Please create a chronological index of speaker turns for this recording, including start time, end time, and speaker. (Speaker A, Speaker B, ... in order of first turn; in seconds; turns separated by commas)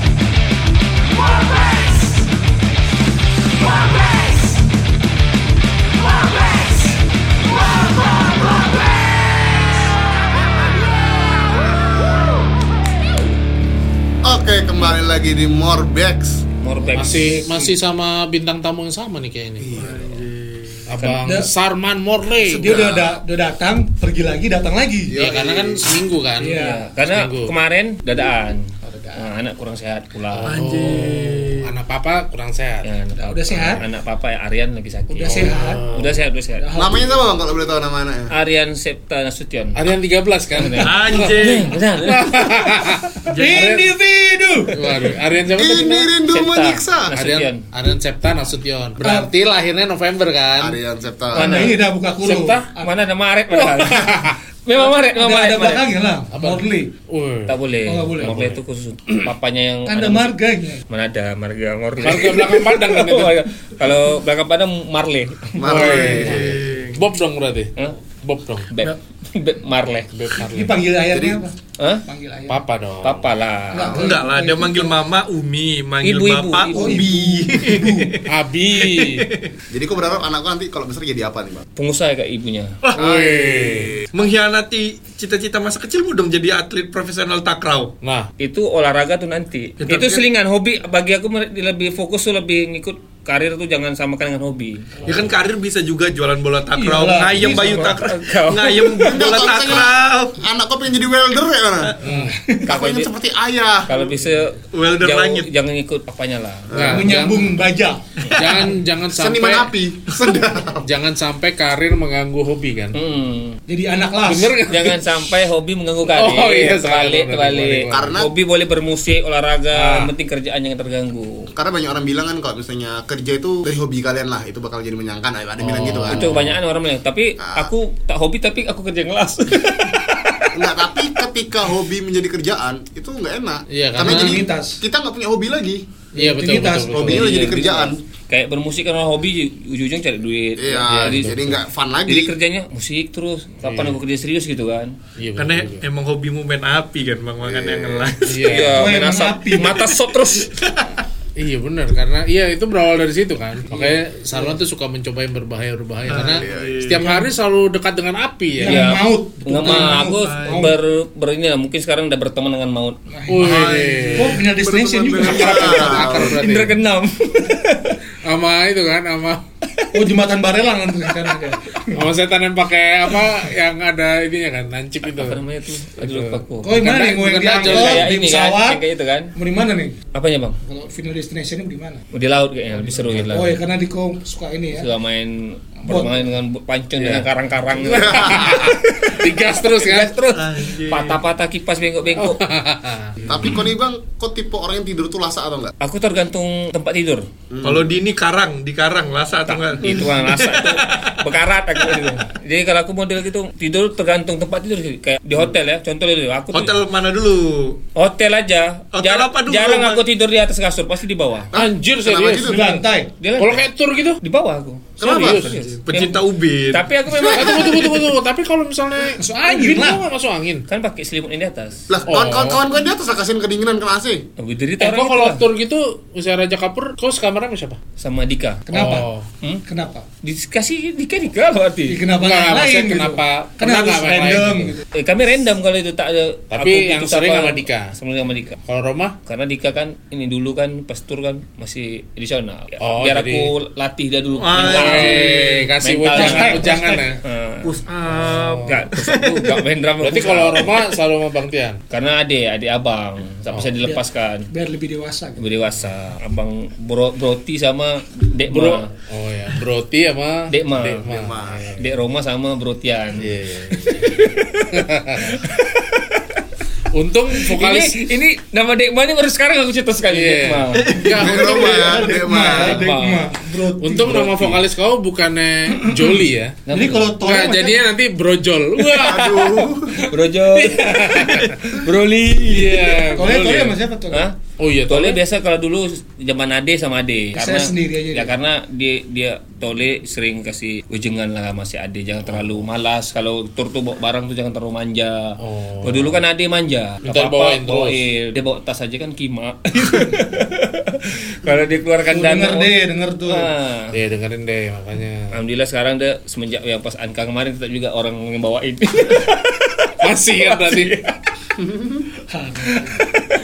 Speaker A: 1.1-2.3, Speaker A: 3.6-4.7, Speaker A: 6.0-9.3, Speaker B: 14.2-16.4, Speaker C: 16.6-17.5, Speaker D: 16.9-19.9, Speaker A: 17.1-17.7, Speaker B: 19.6-20.2, Speaker E: 19.7-20.9, Speaker D: 20.9-22.8, Speaker A: 21.2-21.5, Speaker A: 22.5-25.2, Speaker B: 22.6-23.2, Speaker B: 25.1-25.9, Speaker D: 25.2-27.5, Speaker A: 26.4-26.8, Speaker C: 26.5-30.9, Speaker A: 28.8-29.3, Speaker D: 30.3-32.9, Speaker E: 30.5-31.7, Speaker C: 32.8-36.6, Speaker A: 33.1-33.8, Speaker A: 35.1-37.3, Speaker D: 35.2-36.2, Speaker B: 36.8-38.3, Speaker C: 38.3-39.9, Speaker D: 39.8-41.5, Speaker C: 40.5-42.7, Speaker E: 40.8-41.8, Speaker D: 42.0-43.9, Speaker E: 43.3-43.9, Speaker A: 43.3-44.9, Speaker D: 44.7-46.1, Speaker B: 45.5-47.1, Speaker C: 46.3-47.6, Speaker D: 47.1-50.8, Speaker A: 49.0-49.3, Speaker B: 50.6-51.7, Speaker A: 51.3-53.0, Speaker C: 51.4-51.9, Speaker D: 52.2-52.7, Speaker C: 52.8-55.9, Speaker A: 53.7-56.9, Speaker D: 53.8-54.4, Speaker D: 56.3-57.6, Speaker C: 57.5-60.4, Speaker A: 57.9-58.4, Speaker D: 58.2-58.6, Speaker A: 59.9-60.8, Speaker C: 60.9-65.5, Speaker D: 62.0-63.4, Speaker B: 65.6-66.6, Speaker D: 65.6-68.7, Speaker A: 65.7-66.5, Speaker E: 66.1-67.0, Speaker C: 68.7-70.4, Speaker D: 70.1-70.8, Speaker A: 70.5-72.7, Speaker B: 71.1-71.4, Speaker C: 71.8-72.0, Speaker D: 72.5-73.3, Speaker C: 73.0-74.1, Speaker A: 73.7-75.0, Speaker B: 73.8-74.1, Speaker E: 73.9-79.5, Speaker C: 76.0-77.0, Speaker A: 76.7-78.2, Speaker D: 78.3-79.3, Speaker B: 79.7-81.7, Speaker C: 81.8-82.8, Speaker E: 82.8-83.2, Speaker D: 82.9-84.0, Speaker B: 83.0-84.1, Speaker E: 84.1-87.9, Speaker D: 88.0-88.3, Speaker C: 88.4-94.9, Speaker E: 89.8-90.3, Speaker E: 95.0-100.4, Speaker A: 96.8-98.1, Speaker C: 97.9-99.0, Speaker B: 98.9-102.0, Speaker D: 102.0-102.3, Speaker A: 102.1-102.7, Speaker B: 102.7-104.1, Speaker C: 102.7-103.1, Speaker C: 103.9-106.7, Speaker E: 104.7-105.5, Speaker B: 106.7-107.1, Speaker D: 106.7-107.6, Speaker A: 106.9-108.8, Speaker D: 108.3-109.7, Speaker B: 109.2-110.9, Speaker D: 110.8-113.0, Speaker C: 112.9-113.6, Speaker A: 113.7-114.7, Speaker D: 114.2-115.1, Speaker C: 114.7-121.5, Speaker D: 116.1-118.2, Speaker B: 117.9-118.3, Speaker D: 119.7-120.1, Speaker B: 121.5-126.4, Speaker D: 125.6-126.6, Speaker C: 126.1-130.5, Speaker B: 127.4-127.7, Speaker B: 130.5-135.8, Speaker D: 133.7-134.4, Speaker A: 134.0-134.8, Speaker A: 136.1-137.1, Speaker D: 136.2-137.3, Speaker B: 136.9-138.0, Speaker C: 137.0-145.0, Speaker B: 140.6-142.3, Speaker D: 140.9-141.6, Speaker D: 143.6-144.0, Speaker D: 145.2-145.8, Speaker E: 145.4-148.4, Speaker B: 147.4-148.1, Speaker D: 148.2-149.0, Speaker C: 148.4-150.5, Speaker A: 148.7-149.8, Speaker E: 150.5-150.9, Speaker D: 151.4-158.9, Speaker A: 153.7-154.6, Speaker B: 156.1-156.9, Speaker E: 156.1-157.1, Speaker A: 158.6-160.8, Speaker C: 158.6-163.0, Speaker D: 159.7-160.0, Speaker E: 160.1-160.8, Speaker A: 163.1-166.0, Speaker D: 163.3-164.4, Speaker B: 163.4-166.4, Speaker D: 165.2-166.8, Speaker C: 166.0-168.0, Speaker D: 168.2-169.4, Speaker C: 169.7-170.1, Speaker A: 169.9-172.1, Speaker D: 171.9-175.4, Speaker C: 175.0-176.8, Speaker D: 176.0-178.1, Speaker A: 176.6-178.8, Speaker C: 177.5-179.3, Speaker A: 179.3-180.0, Speaker C: 180.1-180.6, Speaker A: 180.7-182.0, Speaker C: 182.1-183.6, Speaker D: 182.8-183.4, Speaker A: 183.3-184.9, Speaker C: 184.7-192.5, Speaker A: 185.8-186.2, Speaker D: 187.0-187.3, Speaker B: 187.9-188.7, Speaker D: 187.9-190.2, Speaker E: 190.3-191.2, Speaker D: 192.2-193.6, Speaker B: 193.3-195.7, Speaker C: 195.8-197.3, Speaker B: 197.5-198.0, Speaker E: 197.6-202.1, Speaker C: 199.5-206.8, Speaker E: 206.5-207.8, Speaker C: 207.9-211.5, Speaker E: 208.9-210.0, Speaker B: 211.5-212.8, Speaker D: 211.5-212.8, Speaker A: 212.4-213.1, Speaker C: 213.2-213.6, Speaker D: 213.4-214.2, Speaker C: 214.2-217.9, Speaker B: 215.0-215.6, Speaker D: 215.0-215.6, Speaker E: 215.9-216.9, Speaker D: 217.3-220.7, Speaker A: 219.1-220.1, Speaker C: 220.7-221.9, Speaker B: 221.9-224.3, Speaker D: 222.1-222.6, Speaker C: 224.4-225.4, Speaker D: 224.8-227.8, Speaker C: 228.0-228.7, Speaker A: 228.7-229.1, Speaker D: 228.7-229.3, Speaker A: 229.7-230.1, Speaker C: 230.2-232.0, Speaker A: 231.9-234.8, Speaker D: 232.2-234.8, Speaker C: 234.9-238.6, Speaker D: 236.5-237.9, Speaker D: 238.7-239.2, Speaker C: 239.3-247.8, Speaker D: 242.8-243.5, Speaker E: 244.4-245.6, Speaker D: 244.6-247.2, Speaker A: 246.1-247.2, Speaker E: 247.7-249.6, Speaker D: 248.1-248.8, Speaker C: 248.6-250.9, Speaker D: 250.0-251.8, Speaker C: 251.9-254.5, Speaker D: 253.5-253.8, Speaker A: 253.8-255.4, Speaker C: 255.4-258.9, Speaker D: 258.5-261.9, Speaker C: 260.5-261.1, Speaker B: 261.1-261.7, Speaker C: 261.8-266.4, Speaker D: 263.2-265.4, Speaker D: 266.9-268.0, Speaker C: 267.3-271.0, Speaker D: 270.1-271.9, Speaker E: 270.8-271.3, Speaker B: 271.1-272.9, Speaker A: 271.1-274.5, Speaker C: 272.4-273.3, Speaker D: 273.8-276.6, Speaker A: 275.8-276.1, Speaker C: 276.7-277.1, Speaker A: 276.7-277.8, Speaker D: 277.2-279.7, Speaker B: 279.0-280.0, Speaker C: 279.9-283.5, Speaker D: 280.5-281.9, Speaker D: 282.5-283.8, Speaker A: 283.2-284.3, Speaker C: 284.1-302.7, Speaker D: 284.6-285.2, Speaker A: 287.4-288.3, Speaker D: 295.4-296.2, Speaker D: 297.0-298.0, Speaker A: 302.1-303.5, Speaker C: 303.2-303.9, Speaker D: 303.9-305.4, Speaker C: 305.3-311.2, Speaker D: 310.0-311.0, Speaker B: 311.6-312.1, Speaker A: 312.3-313.0